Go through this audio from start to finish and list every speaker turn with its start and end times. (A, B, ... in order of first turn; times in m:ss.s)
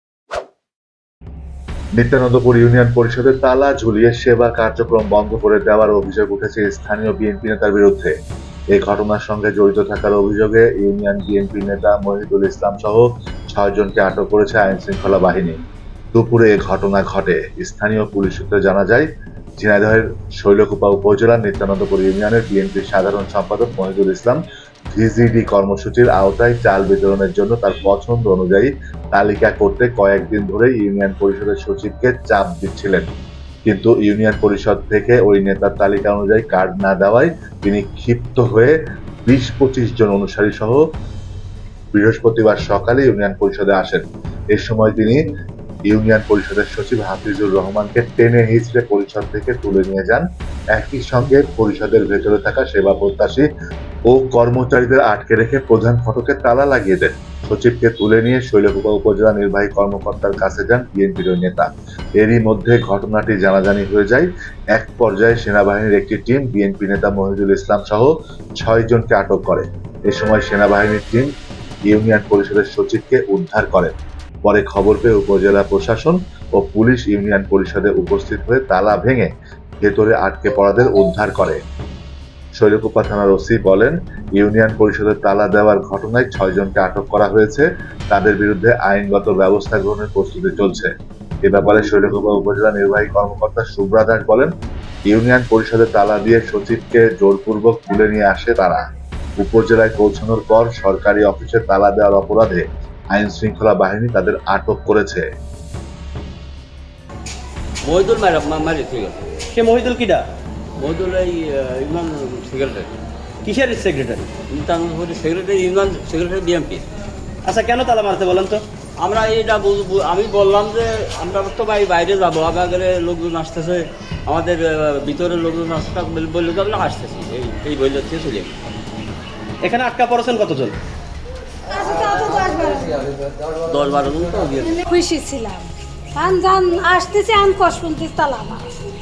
0:02.0-0:08.1 A
0:08.7-0:15.6 A
0:16.1-0:19.1 A
0:19.6-0:24.4 A
0:24.9-0:33.1 A
0:33.6-0:40.8 A
0:41.9-0:44.0 A
0:44.5-0:45.3 A
0:45.9-0:53.5 A
0:54.1-1:11.3 A
1:11.9-1:13.9 A
1:14.4-1:19.3 A
1:19.8-1:21.6 A
1:22.6-1:30.9 A
1:31.4-1:34.5 A
1:35.1-1:38.8 A
1:39.4-1:45.3 A
1:47.8-1:49.4 B
1:49.5-1:50.2 C
1:50.8-1:52.9 B
1:53.4-1:54.4 C
1:54.4-1:56.9 B
1:57.4-1:58.6 C
1:59.0-2:08.5 B
2:09.6-2:10.8 C
2:11.7-2:13.1 D
2:13.6-2:14.8 B
2:14.7-2:18.7 D